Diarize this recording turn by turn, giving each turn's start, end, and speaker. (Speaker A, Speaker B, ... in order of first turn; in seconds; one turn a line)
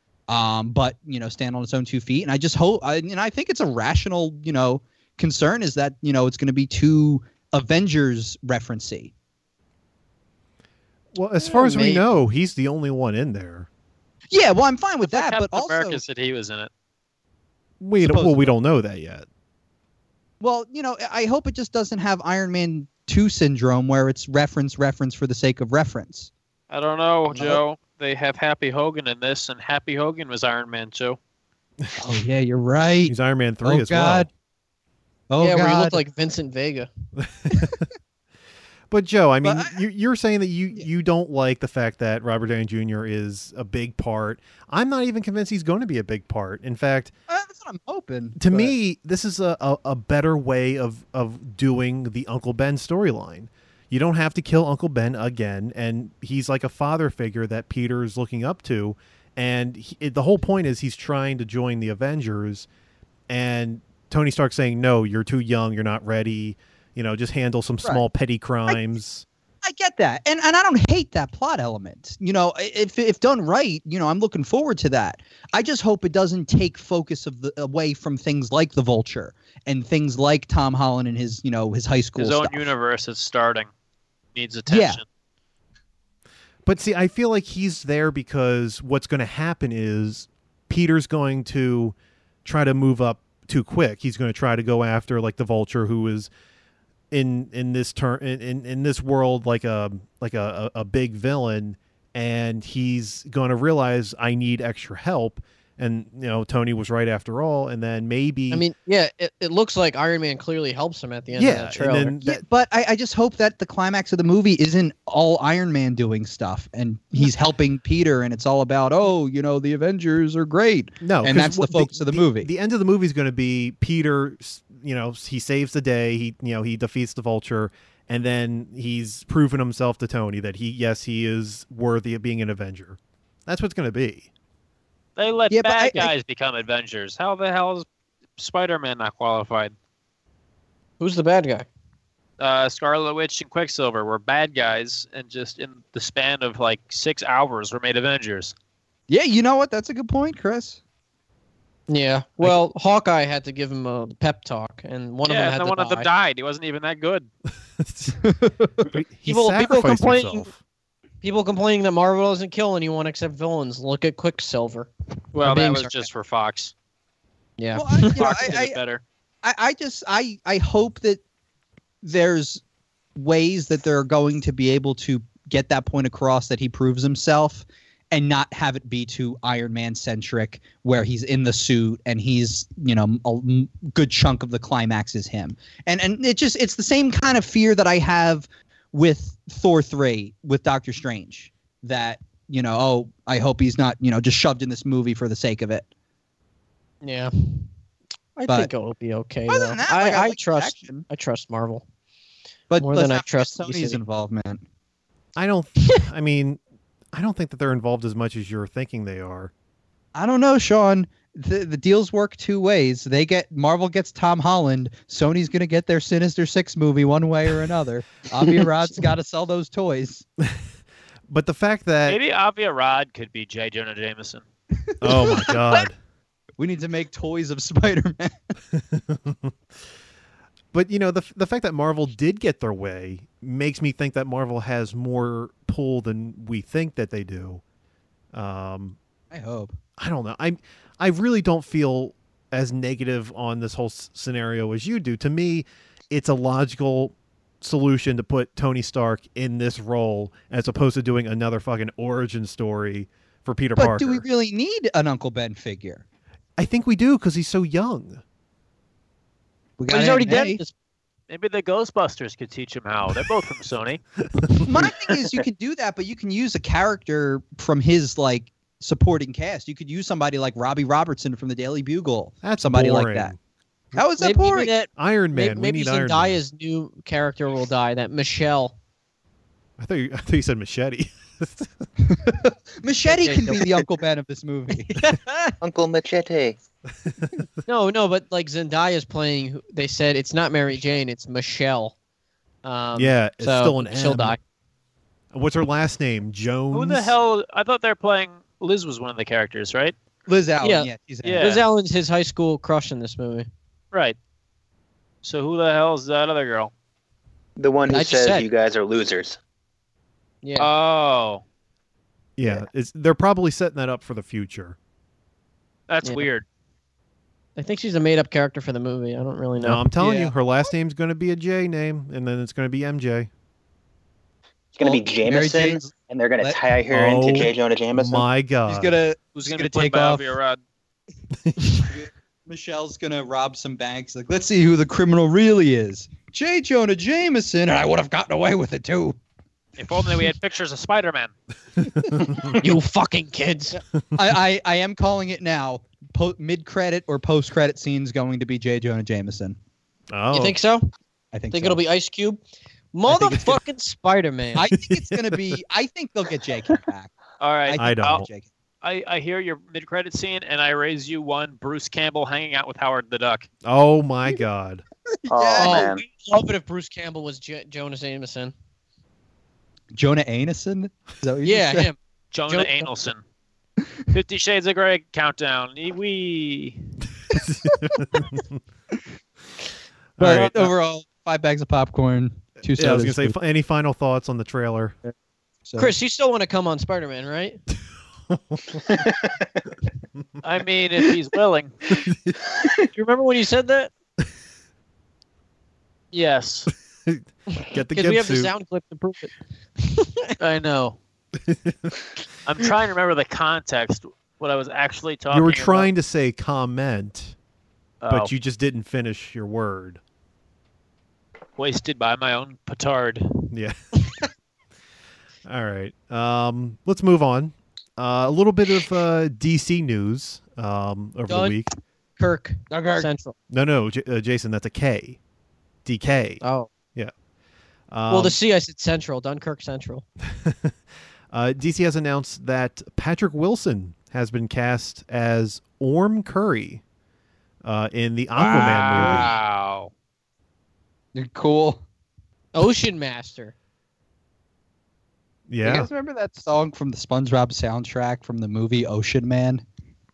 Speaker A: 0.3-9.1
Speaker B: 11.1-13.7
Speaker C: 11.4-12.1
Speaker A: 14.3-16.0
Speaker D: 15.0-16.7
Speaker B: 17.8-19.3
Speaker A: 18.0-18.5
Speaker A: 20.4-26.3
Speaker D: 26.7-31.2
Speaker A: 27.3-27.6
Speaker A: 32.0-34.3
Speaker B: 33.1-34.3
Speaker A: 35.3-36.0
Speaker C: 35.4-36.9
Speaker B: 37.2-37.8
Speaker B: 38.9-47.1
Speaker A: 39.4-39.8
Speaker A: 47.3-48.7
Speaker B: 48.4-62.7
Speaker B: 63.3-69.3
Speaker A: 69.6-82.7
Speaker D: 82.2-83.7
Speaker D: 84.3-85.0
Speaker A: 84.7-85.0
Speaker B: 86.7-96.3
Speaker B: 97.1-108.6
Speaker C: 108.5-112.2
Speaker B: 111.3-112.4
Speaker A: 112.2-122.5
Speaker B: 121.0-134.3
Speaker D: 135.2-137.9
Speaker A: 135.5-136.1
Speaker D: 138.4-139.7
Speaker C: 141.0-141.7
Speaker D: 142.4-148.5
Speaker A: 149.1-150.8
Speaker C: 151.9-156.1
Speaker D: 155.3-157.3
Speaker B: 157.8-158.3
Speaker B: 158.8-160.6
Speaker C: 159.3-160.5
Speaker C: 161.2-166.0
Speaker D: 165.3-166.7
Speaker C: 167.6-168.2
Speaker A: 167.7-168.8
Speaker D: 168.2-169.0
Speaker A: 169.4-171.2
Speaker A: 172.0-172.6
Speaker A: 173.2-195.9
Speaker C: 197.0-197.7
Speaker C: 198.4-201.8
Speaker A: 199.5-201.1
Speaker A: 202.7-204.6
Speaker C: 202.8-204.0
Speaker B: 205.4-206.6
Speaker B: 207.1-209.5
Speaker A: 210.2-220.2
Speaker B: 221.3-222.2
Speaker D: 222.1-224.4
Speaker A: 224.9-225.8
Speaker B: 225.0-226.0
Speaker A: 226.6-228.5
Speaker B: 228.8-229.5
Speaker B: 230.7-237.6
Speaker B: 238.3-239.0
Speaker A: 239.3-239.8
Speaker B: 240.0-254.2
Speaker A: 253.8-256.0
Speaker B: 256.6-258.2
Speaker A: 259.8-260.6
Speaker C: 259.9-260.7
Speaker D: 261.3-264.0
Speaker B: 264.4-264.9
Speaker A: 264.6-273.4
Speaker B: 272.4-273.4
Speaker A: 273.9-274.7
Speaker C: 274.2-278.7
Speaker B: 274.9-276.4
Speaker B: 279.8-282.4
Speaker A: 282.0-285.1
Speaker C: 283.1-283.6
Speaker C: 284.9-285.6
Speaker E: 285.6-286.6
Speaker B: 287.0-287.4
Speaker C: 287.7-291.9
Speaker C: 292.6-294.4
Speaker B: 292.9-294.4
Speaker B: 295.3-297.1
Speaker D: 296.7-299.9
Speaker A: 300.3-301.5
Speaker C: 300.6-303.5
Speaker D: 301.2-301.6
Speaker D: 305.2-306.7
Speaker E: 307.6-309.4
Speaker C: 307.9-308.5
Speaker C: 310.4-310.7
Speaker D: 310.6-311.4
Speaker B: 312.4-314.8
Speaker D: 315.9-316.4
Speaker C: 317.6-319.9
Speaker B: 319.6-323.3
Speaker A: 320.0-320.3
Speaker E: 324.8-328.2
Speaker A: 324.8-326.6
Speaker B: 326.9-329.0
Speaker A: 328.7-330.4
Speaker D: 329.4-330.6
Speaker B: 331.4-331.9
Speaker A: 331.7-339.2
Speaker D: 339.8-341.3
Speaker B: 342.1-342.4
Speaker C: 342.6-343.8
Speaker A: 344.1-349.6
Speaker B: 350.1-350.6
Speaker C: 350.3-350.9
Speaker A: 351.3-351.8
Speaker C: 351.5-352.4
Speaker C: 352.9-354.7
Speaker A: 353.1-353.6
Speaker A: 354.6-357.1
Speaker B: 354.7-355.6
Speaker D: 357.4-358.3
Speaker A: 357.7-358.5
Speaker B: 357.8-358.3
Speaker D: 358.8-363.5
Speaker B: 363.6-364.8
Speaker A: 365.2-365.9
Speaker E: 365.3-366.0
Speaker C: 365.6-368.5
Speaker A: 369.9-371.9
Speaker C: 371.4-372.0
Speaker D: 372.3-373.2
Speaker C: 372.5-372.9
Speaker D: 374.1-376.8
Speaker B: 377.3-378.5
Speaker B: 380.2-380.7
Speaker A: 380.2-383.4
Speaker B: 382.8-384.9
Speaker A: 385.7-385.9
Speaker C: 385.8-387.6
Speaker B: 388.3-389.0
Speaker E: 388.9-389.4
Speaker D: 390.4-391.7
Speaker B: 392.1-392.4
Speaker C: 392.9-393.9
Speaker D: 396.1-396.7
Speaker B: 397.1-398.5
Speaker C: 397.9-400.4
Speaker D: 400.4-401.0
Speaker B: 401.4-402.0
Speaker D: 402.4-405.9
Speaker B: 405.3-407.4
Speaker D: 408.0-408.3
Speaker B: 408.1-410.0
Speaker D: 411.6-413.5
Speaker B: 413.5-413.8
Speaker B: 415.4-421.7
Speaker C: 421.3-421.6
Speaker C: 422.2-423.3
Speaker A: 422.7-423.1
Speaker B: 423.5-425.2
Speaker B: 425.9-426.4
Speaker C: 426.4-426.7
Speaker B: 427.9-428.4
Speaker C: 428.1-430.0
Speaker B: 430.3-430.8
Speaker B: 431.3-436.8
Speaker B: 437.6-439.3
Speaker D: 438.4-439.9
Speaker C: 438.9-439.3
Speaker A: 441.1-441.8
Speaker C: 442.5-443.5
Speaker B: 445.5-445.9
Speaker A: 445.6-449.6